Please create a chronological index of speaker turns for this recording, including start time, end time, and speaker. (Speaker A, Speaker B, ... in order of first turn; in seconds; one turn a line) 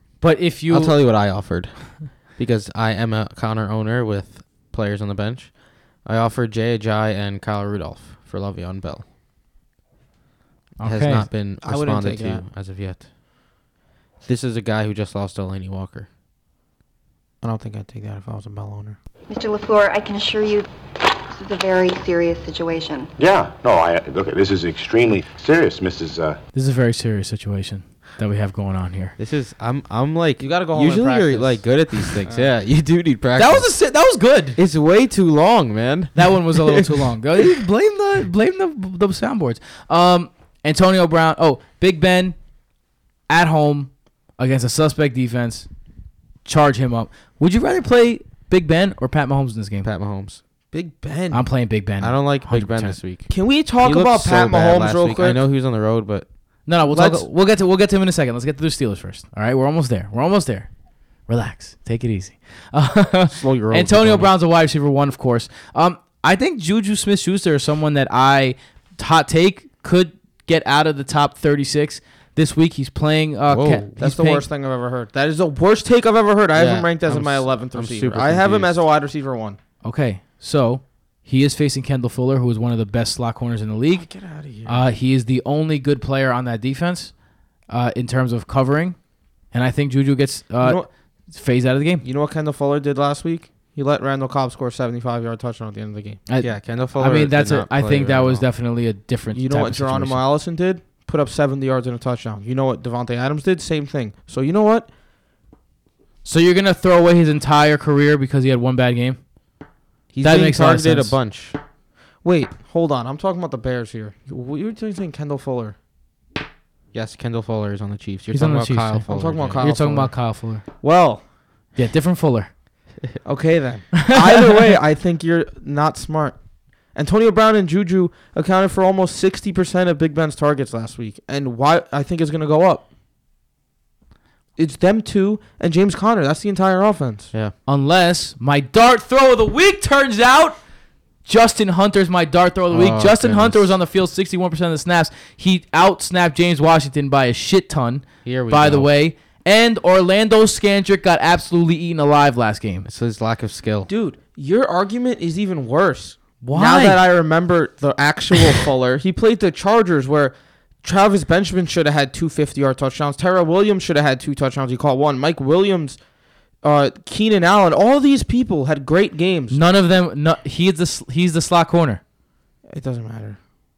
Speaker A: 0.2-0.9
Speaker B: 0.7-9.1
Speaker A: 10.8-11.3
Speaker B: 10.8-13.1
Speaker C: 11.6-12.4
Speaker B: 14.2-16.1
Speaker C: 17.4-19.0
Speaker D: 19.3-20.7
Speaker D: 21.2-23.1
Speaker E: 23.2-26.4
Speaker A: 26.5-29.1
Speaker B: 29.2-33.7
Speaker C: 30.4-31.7
Speaker C: 32.2-32.5
Speaker A: 33.4-34.6
Speaker B: 34.6-37.0
Speaker A: 36.1-42.4
Speaker A: 43.3-45.7
Speaker A: 46.5-49.9
Speaker B: 49.8-50.4
Speaker C: 50.7-51.5
Speaker A: 51.3-53.0
Speaker B: 52.0-56.3
Speaker C: 53.3-55.4
Speaker A: 56.7-60.7
Speaker C: 56.9-57.2
Speaker A: 61.3-74.4
Speaker B: 63.3-64.3
Speaker B: 73.5-73.9
Speaker C: 74.0-79.6
Speaker B: 76.5-78.8
Speaker A: 79.8-84.1
Speaker C: 84.0-84.8
Speaker A: 84.7-87.1
Speaker A: 87.7-89.0
Speaker A: 89.5-92.0
Speaker C: 90.6-90.9
Speaker C: 92.0-96.2
Speaker A: 96.3-100.2
Speaker B: 96.4-98.5
Speaker C: 99.3-104.9
Speaker A: 106.2-109.2
Speaker B: 110.1-111.6
Speaker A: 110.2-111.2
Speaker C: 112.2-115.8
Speaker B: 116.9-119.6
Speaker A: 118.3-120.6
Speaker C: 119.1-120.2
Speaker C: 120.8-121.2
Speaker A: 121.8-122.5
Speaker C: 123.2-126.4
Speaker A: 124.0-124.3
Speaker C: 127.0-132.9
Speaker C: 134.6-137.3
Speaker A: 137.7-140.6
Speaker A: 141.3-152.9
Speaker B: 142.7-143.7
Speaker B: 148.2-148.9
Speaker B: 152.8-153.9
Speaker C: 153.9-166.0
Speaker A: 156.4-157.0
Speaker C: 166.6-169.6
Speaker A: 169.5-172.0
Speaker C: 172.7-173.4